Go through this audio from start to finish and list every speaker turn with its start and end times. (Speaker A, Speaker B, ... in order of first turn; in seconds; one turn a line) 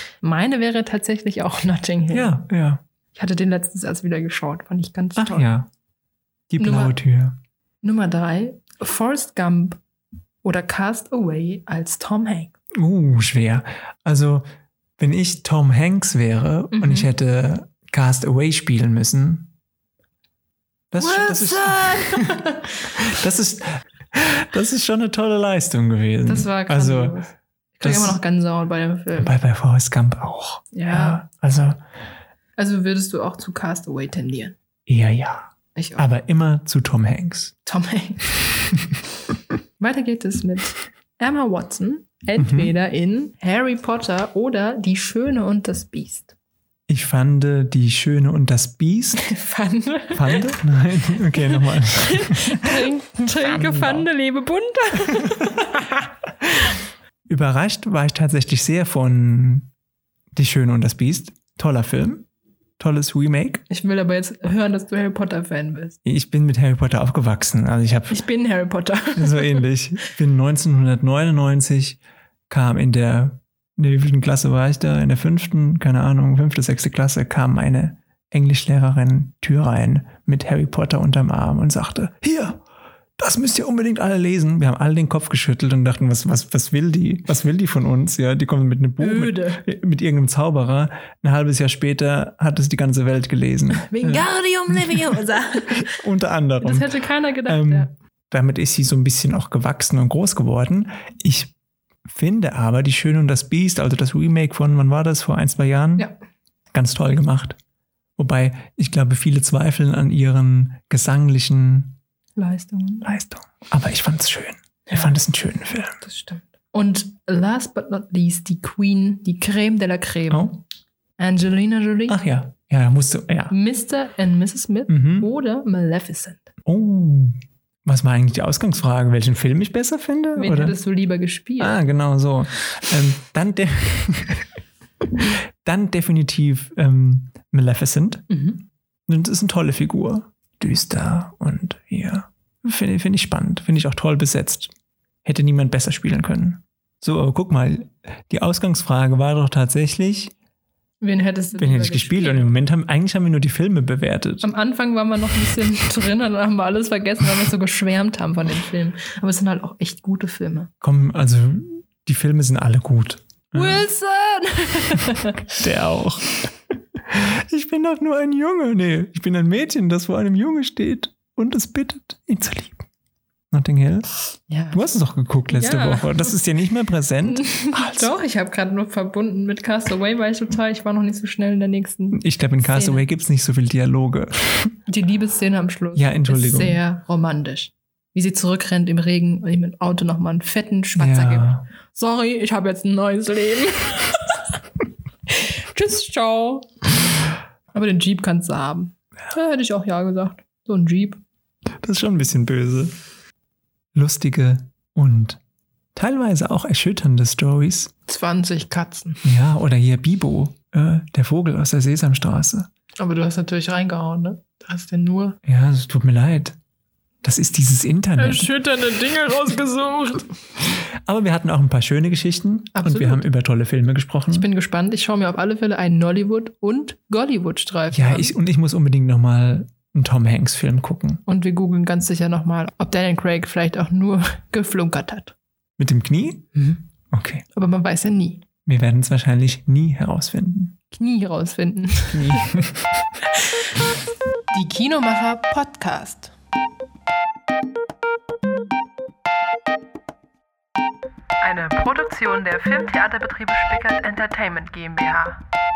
Speaker A: 0.2-2.4
Speaker B: 2.1-2.8
Speaker A: 3.1-5.5
Speaker B: 5.2-5.7
Speaker B: 6.5-7.4
Speaker A: 6.6-7.0
Speaker A: 7.8-9.8
Speaker A: 10.4-12.5
Speaker B: 12.8-14.4
Speaker B: 15.0-19.5
Speaker A: 16.7-17.1
Speaker B: 20.9-27.2
Speaker A: 21.0-22.9
Speaker A: 26.3-29.3
Speaker B: 27.8-28.2
Speaker B: 29.1-31.8
Speaker A: 30.7-31.2
Speaker A: 32.6-34.6
Speaker B: 34.9-37.5
Speaker A: 35.8-36.1
Speaker A: 37.6-38.5
Speaker A: 39.8-46.3
Speaker B: 42.4-42.7
Speaker B: 46.9-49.3
Speaker A: 49.2-50.5
Speaker B: 50.1-52.9
Speaker A: 51.4-56.8
Speaker B: 53.4-54.1
Speaker B: 57.3-59.7
Speaker B: 60.3-62.3
Speaker B: 62.8-63.6
Speaker A: 63.7-66.0
Speaker B: 66.0-68.2
Speaker A: 68.1-69.7
Speaker B: 69.2-72.0
Speaker B: 72.5-82.6
Speaker B: 83.2-101.5
Speaker A: 89.0-89.6
Speaker A: 93.8-96.0
Speaker A: 96.6-97.9
Speaker B: 102.1-106.1
Speaker B: 106.7-107.6
Speaker B: 108.2-112.0
Speaker A: 112.4-113.1
Speaker B: 113.0-116.0
Speaker A: 116.0-120.6
Speaker B: 120.3-120.6
Speaker A: 121.2-122.2
Speaker B: 122.1-123.5
Speaker A: 123.5-126.5
Speaker B: 124.9-125.3
Speaker B: 126.7-130.8
Speaker A: 130.3-131.8
Speaker B: 131.6-134.5
Speaker B: 135.2-138.3
Speaker A: 138.3-138.6
Speaker B: 139.1-144.7
Speaker B: 145.2-150.3
Speaker A: 151.0-152.5
Speaker B: 151.6-154.5
Speaker A: 154.4-160.7
Speaker B: 160.8-163.9
Speaker A: 163.5-165.4
Speaker B: 165.5-166.6
Speaker B: 167.1-172.8
Speaker B: 173.5-174.1
Speaker A: 174.5-174.8
Speaker B: 174.7-178.1
Speaker A: 175.5-176.3
Speaker A: 177.3-183.1
Speaker B: 182.1-184.8
Speaker A: 184.9-194.5
Speaker B: 185.9-186.8
Speaker B: 191.0-191.7
Speaker A: 195.3-196.9
Speaker A: 197.7-201.2
Speaker B: 201.8-202.9
Speaker B: 203.9-205.4
Speaker B: 205.9-207.9
Speaker A: 208.1-209.2
Speaker B: 209.2-212.7
Speaker A: 213.0-215.4
Speaker B: 215.4-216.6
Speaker B: 217.2-218.5
Speaker A: 218.2-220.4
Speaker B: 220.7-224.5
Speaker A: 222.8-223.2
Speaker A: 224.3-228.3
Speaker B: 227.9-231.2
Speaker A: 231.3-235.3
Speaker B: 235.8-236.5
Speaker A: 236.6-236.8
Speaker B: 237.1-237.4
Speaker A: 237.6-238.4
Speaker B: 238.7-240.8
Speaker A: 240.9-242.7
Speaker B: 242.1-243.0
Speaker A: 243.3-244.0
Speaker A: 244.5-246.3
Speaker A: 251.4-255.4